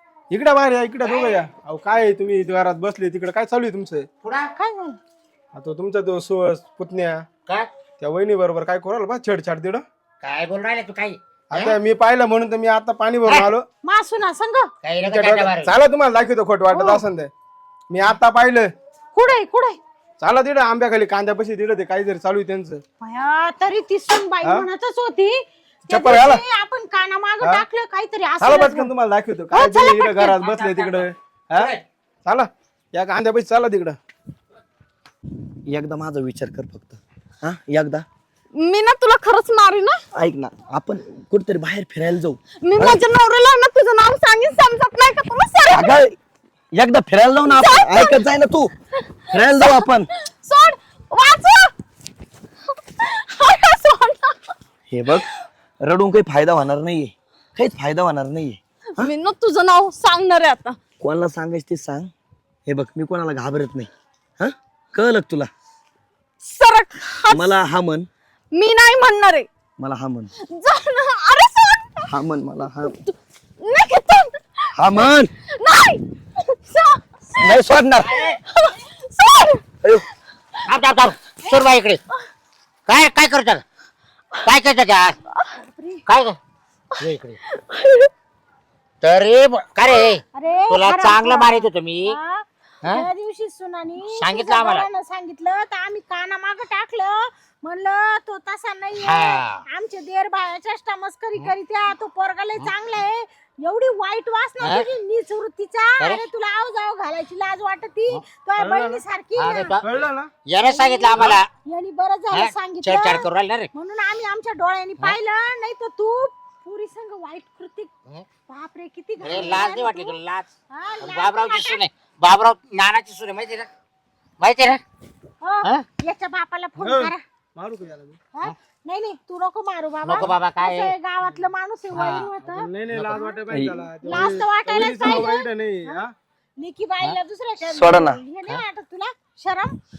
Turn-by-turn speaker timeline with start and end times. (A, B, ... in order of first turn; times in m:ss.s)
0:00.3-0:04.1 A
0:01.0-0:01.4 B
0:04.2-0:04.5 B
0:04.6-0:05.0 C
0:05.5-0:07.2 A
0:08.0-0:09.8 A
0:10.2-0:11.8 B
0:11.5-0:13.6 A
0:13.8-0:14.7 C
0:14.8-0:15.7 B
0:15.0-0:17.3 A
0:16.7-0:17.0 C
0:17.9-0:18.7 A
0:19.1-0:19.8 C
0:20.2-0:22.8 A
0:23.0-0:25.4 C
0:24.4-0:24.7 A
0:25.9-0:28.9 C
0:25.9-0:26.4 A
0:28.4-0:31.7 A
0:29.5-0:30.3 C
0:29.6-0:29.9 D
0:30.3-0:31.8 B
0:32.2-0:34.0 A
0:35.7-0:38.0 E
0:38.6-0:40.0 D
0:40.1-0:43.0 E
0:42.6-0:45.9 D
0:45.7-0:46.1 E
0:46.7-0:48.7 E
0:47.4-0:48.2 D
0:49.3-0:51.7 D
0:49.3-0:50.1 E
0:52.9-0:54.5 D
0:54.9-0:55.3 E
0:55.8-0:59.1 E
0:59.0-1:00.8 D
1:01.0-1:02.1 E
1:02.6-1:05.5 E
1:06.4-1:07.5 D
1:07.3-1:08.1 E
1:08.5-1:09.5 D
1:09.8-1:10.3 E
1:10.3-1:12.1 D
1:12.1-1:12.9 E
1:12.8-1:14.7 D
1:14.8-1:15.3 E
1:15.5-1:17.5 D
1:17.4-1:18.1 E
1:18.0-1:18.4 B
1:18.4-1:19.6 D
1:20.7-1:22.0 B
1:22.9-1:23.6 B
1:24.4-1:25.2 B
1:25.4-1:26.0 D
1:26.1-1:26.4 B
1:27.0-1:27.4 B
1:27.5-1:28.1 D
1:29.0-1:32.2 B
1:30.3-1:49.8 C
1:34.0-1:34.9 B
1:39.0-1:39.6 B
1:44.6-1:44.9 B
1:46.0-1:46.2 B
1:48.6-1:49.0 A
1:49.4-1:51.4 B
1:49.8-1:50.3 A
1:50.6-1:57.9 C
1:52.3-1:53.7 B
1:58.5-2:00.2 C
1:59.2-2:00.5 B
2:00.7-2:01.8 C
2:01.0-2:03.7 B
2:04.4-2:04.8 B
2:05.4-2:07.2 C
2:06.8-2:08.2 A
2:08.3-2:13.4 C
2:10.0-2:11.0 B
2:11.9-2:12.3 B
2:12.5-2:16.1 A
2:12.9-2:13.2 B
2:13.5-2:13.8 E
2:14.0-2:16.0 C
2:16.6-2:19.8 C
2:17.7-2:18.2 E